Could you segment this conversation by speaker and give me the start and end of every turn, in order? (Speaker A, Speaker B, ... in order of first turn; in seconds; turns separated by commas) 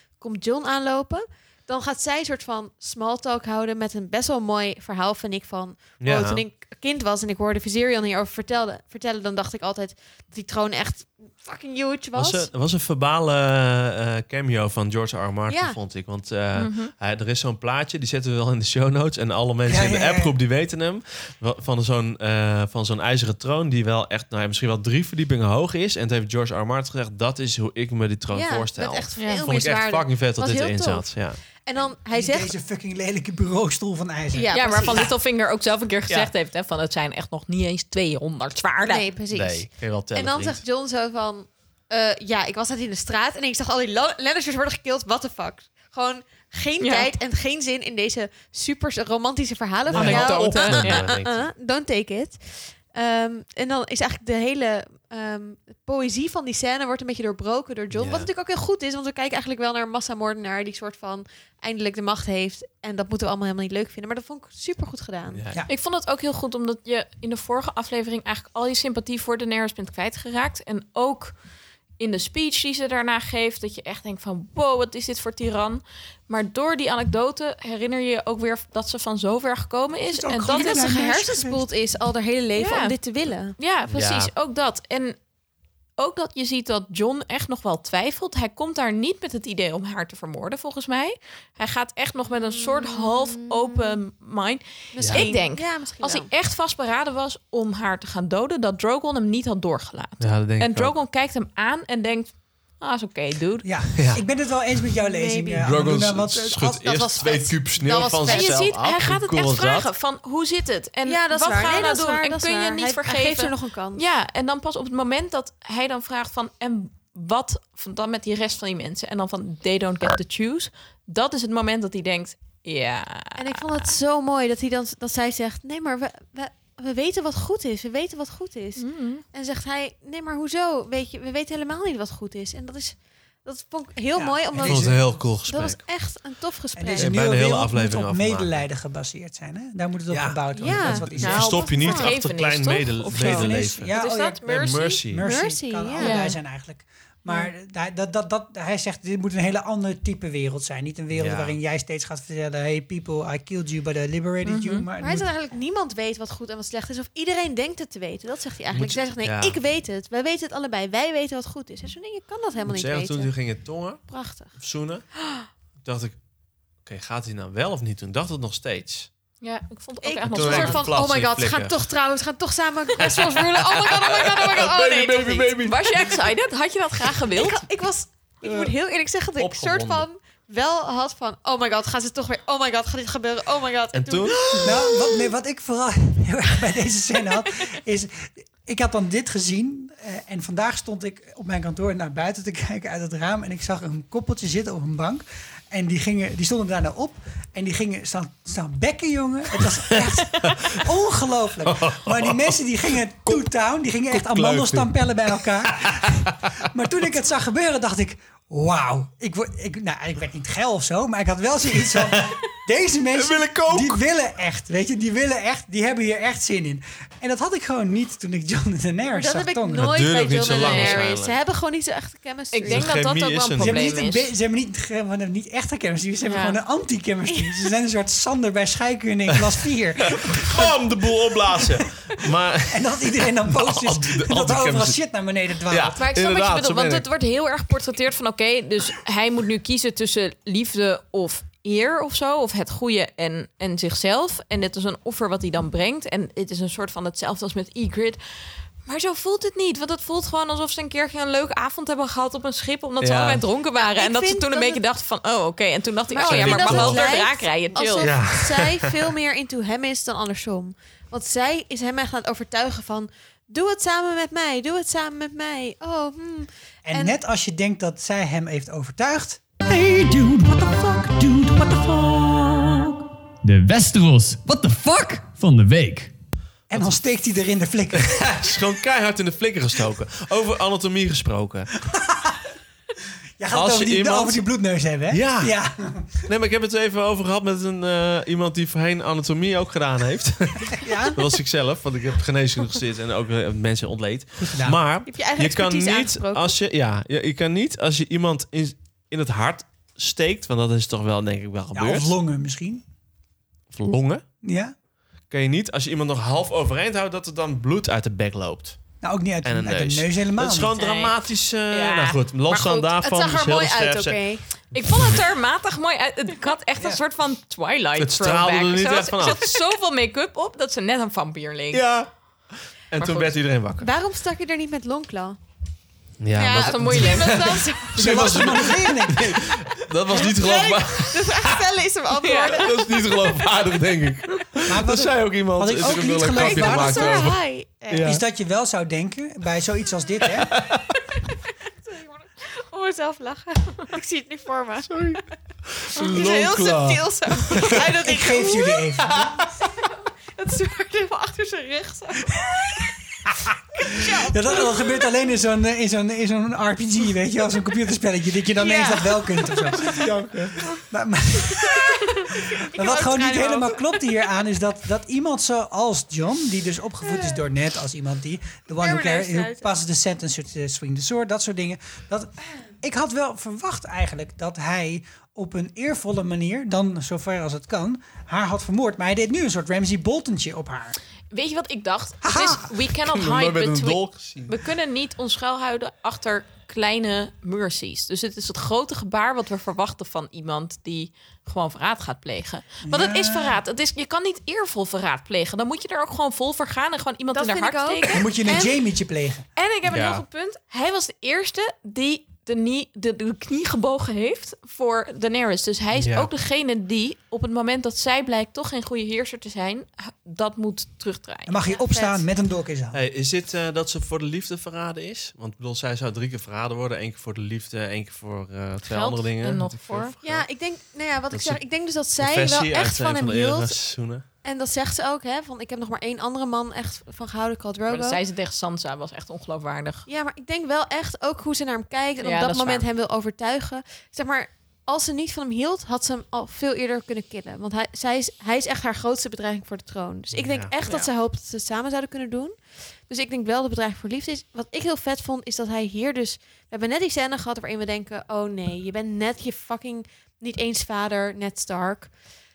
Speaker A: 0.2-12.5, Speaker B: 6.0-6.4, Speaker B: 12.1-31.4, Speaker A: 15.5-15.8, Speaker C: 16.6-16.9, Speaker D: 19.6-20.3, Speaker A: 28.3-32.5, Speaker C: 29.2-29.5, Speaker D: 32.1-35.0, Speaker A: 34.3-35.1, Speaker C: 34.5-39.0, Speaker A: 38.8-52.4, Speaker B: 39.3-40.6, Speaker C: 46.8-47.1, Speaker B: 49.9-51.5, Speaker C: 49.9-51.1, Speaker A: 52.9-65.4, Speaker B: 57.9-58.3, Speaker B: 65.3-65.6, Speaker C: 65.7-71.3, Speaker C: 72.0-80.9, Speaker D: 80.1-81.7, Speaker A: 80.4-83.5, Speaker C: 82.6-82.9, Speaker C: 83.6-85.2, Speaker B: 83.9-84.3, Speaker C: 86.0-103.7, Speaker A: 92.4-93.8, Speaker A: 94.9-96.3, Speaker B: 95.0-95.2, Speaker B: 100.2-100.9, Speaker D: 103.6-106.8, Speaker B: 104.0-104.2, Speaker A: 105.0-105.7, Speaker B: 105.6-109.9, Speaker A: 106.7-108.6, Speaker C: 108.2-123.6, Speaker A: 111.0-114.0, Speaker A: 123.4-137.2, Speaker C: 128.8-129.2, Speaker D: 134.1-135.3, Speaker B: 134.6-135.8, Speaker D: 136.7-141.7, Speaker B: 137.0-138.6, Speaker B: 140.1-145.2, Speaker A: 140.5-142.1, Speaker C: 141.2-145.0, Speaker D: 143.1-144.4, Speaker D: 145.1-155.3, Speaker A: 145.2-146.2, Speaker C: 146.0-146.4, Speaker B: 151.1-151.6, Speaker C: 154.4-154.8, Speaker A: 155.0-163.3, Speaker B: 158.7-159.6, Speaker B: 162.7-165.0, Speaker A: 164.1-164.5, Speaker B: 165.8-166.2, Speaker B: 166.8-169.1, Speaker C: 169.4-170.9, Speaker A: 170.0-175.5, Speaker B: 170.3-171.8, Speaker B: 173.0-176.1, Speaker C: 175.6-177.6, Speaker A: 177.3-184.7, Speaker B: 178.4-178.7, Speaker B: 179.4-180.1, Speaker B: 183.9-184.9, Speaker D: 184.6-219.9, Speaker B: 199.9-200.8, Speaker B: 201.6-202.6, Speaker B: 204.1-206.3, Speaker B: 211.9-212.4, Speaker B: 213.1-214.0, Speaker A: 219.1-222.9, Speaker B: 219.7-221.4, Speaker C: 220.5-221.0, Speaker C: 222.5-224.3, Speaker B: 222.7-223.8, Speaker D: 223.6-230.7, Speaker C: 226.2-226.6, Speaker A: 227.3-227.6, Speaker B: 230.1-235.0, Speaker D: 232.7-236.0, Speaker B: 235.7-237.0, Speaker C: 235.9-248.2, Speaker C: 248.8-258.2, Speaker B: 253.0-253.4, Speaker A: 253.8-254.8, Speaker A: 256.1-267.1, Speaker B: 256.2-257.1, Speaker B: 258.0-258.9, Speaker D: 266.9-272.9, Speaker E: 273.4-276.1, Speaker D: 276.7-278.5, Speaker B: 277.9-281.7, Speaker D: 281.9-282.4, Speaker D: 283.4-286.1, Speaker B: 283.5-284.4, Speaker B: 285.1-285.6, Speaker B: 286.2-302.1, Speaker D: 290.7-291.2, Speaker D: 294.4-294.8, Speaker A: 295.1-296.6, Speaker D: 301.7-302.8, Speaker B: 303.7-304.2, Speaker D: 304.4-304.7, Speaker B: 305.3-308.8, Speaker D: 309.0-310.7, Speaker B: 309.4-314.2, Speaker C: 310.7-311.1, Speaker C: 311.7-312.2, Speaker A: 312.5-314.4, Speaker B: 314.7-315.1, Speaker C: 314.7-321.8, Speaker B: 318.0-319.5, Speaker B: 321.7-323.9, Speaker C: 323.0-323.3, Speaker A: 323.8-325.4, Speaker B: 326.2-331.6, Speaker A: 326.3-328.5, Speaker C: 326.6-327.6, Speaker D: 327.9-329.5, Speaker A: 330.1-333.0, Speaker C: 332.2-332.8, Speaker B: 332.5-337.4, Speaker D: 334.6-337.4, Speaker A: 335.8-338.1, Speaker B: 337.9-338.2, Speaker D: 338.0-340.5, Speaker B: 340.2-341.0, Speaker A: 341.8-345.1, Speaker B: 344.9-347.8, Speaker A: 345.9-348.9, Speaker D: 347.7-349.4, Speaker A: 350.4-352.8, Speaker D: 353.8-360.1, Speaker A: 353.8-355.0, Speaker A: 358.6-360.2, Speaker D: 360.7-381.0, Speaker A: 361.5-364.1, Speaker A: 367.1-367.4, Speaker A: 368.8-369.7, Speaker C: 381.3-398.3, Speaker D: 382.2-382.6, Speaker B: 382.9-384.5, Speaker D: 392.8-393.6, Speaker A: 397.3-398.7, Speaker D: 398.1-399.4, Speaker C: 399.6-411.6, Speaker B: 399.8-400.2, Speaker B: 405.9-406.3, Speaker D: 411.5-413.0, Speaker A: 411.6-412.2, Speaker B: 412.9-420.5, Speaker C: 418.8-420.1, Speaker A: 420.2-423.8, Speaker B: 421.3-421.6, Speaker B: 422.1-424.2, Speaker A: 424.4-428.2, Speaker C: 427.9-430.1, Speaker A: 430.1-442.6, Speaker C: 432.2-432.9, Speaker B: 440.3-440.7, Speaker A: 443.1-452.1